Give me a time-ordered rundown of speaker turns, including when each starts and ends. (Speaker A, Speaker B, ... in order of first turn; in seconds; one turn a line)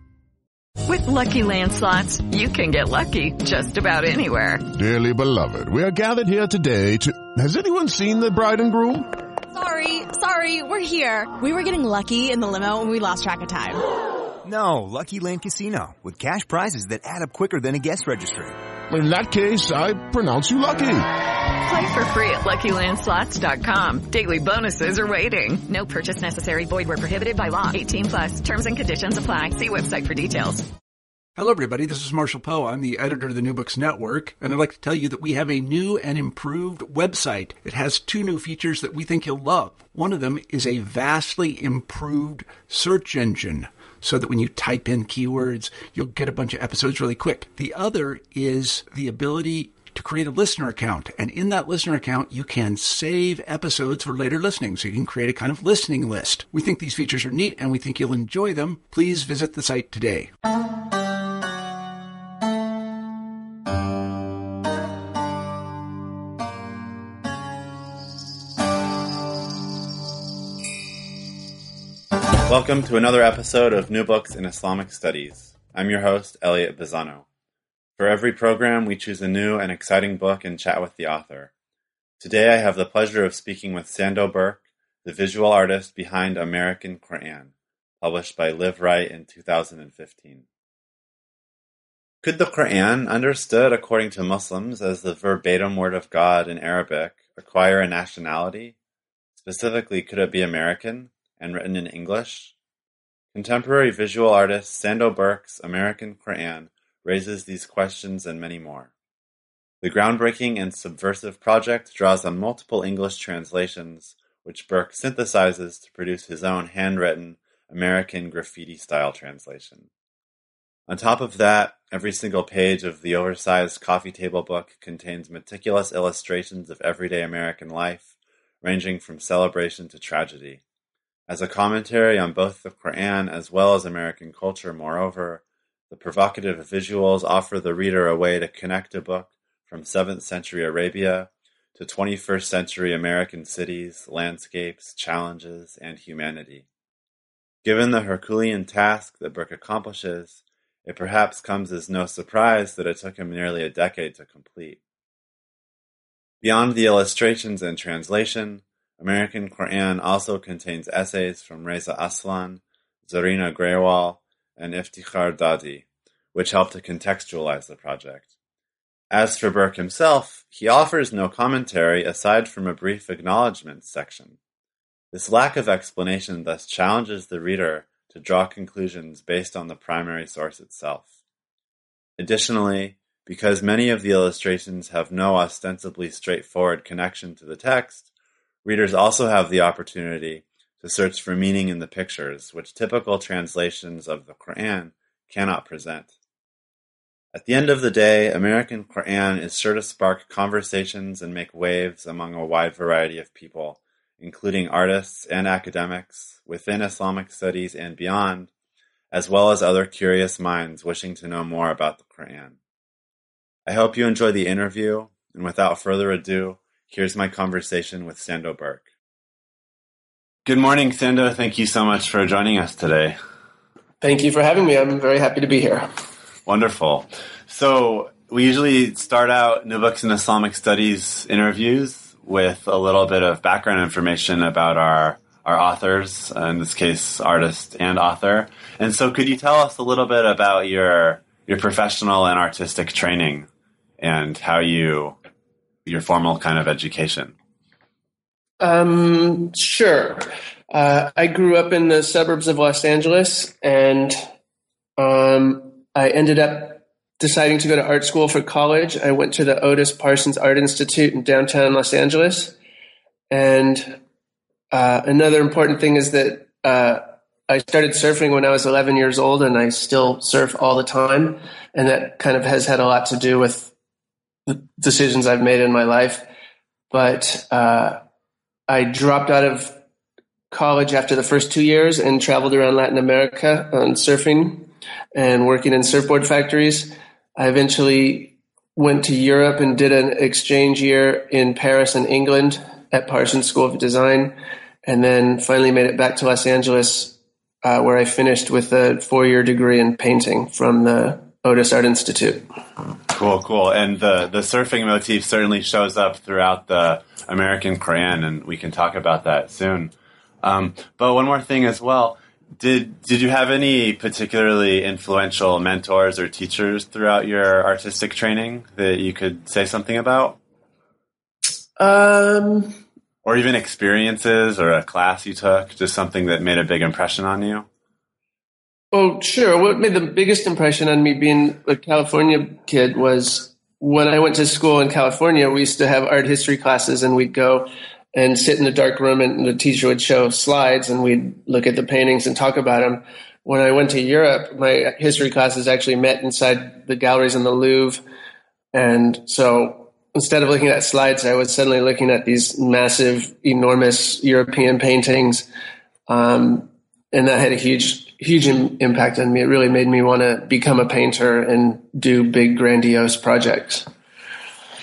Speaker A: 0.9-4.6
Speaker B: 4.7-9.1
Speaker C: 9.5-13.8
Speaker D: 14.4-18.6
Speaker B: 18.9-21.1
Speaker A: 21.6-30.7
Speaker E: 31.4-60.3
Speaker F: 72.5-77.2
Speaker F: 78.0-81.5
Speaker F: 82.2-90.5
Speaker F: 92.2-98.8
Speaker F: 99.4-102.5
Speaker F: 103.3-108.9
Speaker F: 109.8-119.9
Speaker F: 120.9-128.1
Speaker F: 128.6-130.6
Speaker F: 131.3-146.7
Speaker F: 147.6-154.8
Speaker F: 156.4-168.3
Speaker F: 169.1-174.4
Speaker F: 175.1-181.1
Speaker F: 182.2-188.1
Speaker F: 188.7-196.1
Speaker F: 197.3-208.5
Speaker F: 209.1-212.6
Speaker F: 213.7-218.8
Speaker F: 220.4-223.2
Speaker G: 224.0-225.9
Speaker F: 226.5-243.5
Speaker F: 244.0-245.2
Speaker F: 245.8-247.3
Speaker G: 248.6-254.2
Speaker G: 255.0-262.5
Speaker G: 263.3-264.0
Speaker G: 264.7-273.7
Speaker G: 274.5-276.3
Speaker G: 276.9-278.0
Speaker G: 278.7-279.8
Speaker G: 280.5-294.4
Speaker G: 294.9-302.4
Speaker F: 303.1-320.4
Speaker G: 321.8-322.8
Speaker F: 323.2-327.7
Speaker G: 328.9-348.0
Speaker G: 348.7-355.5
Speaker G: 356.1-363.9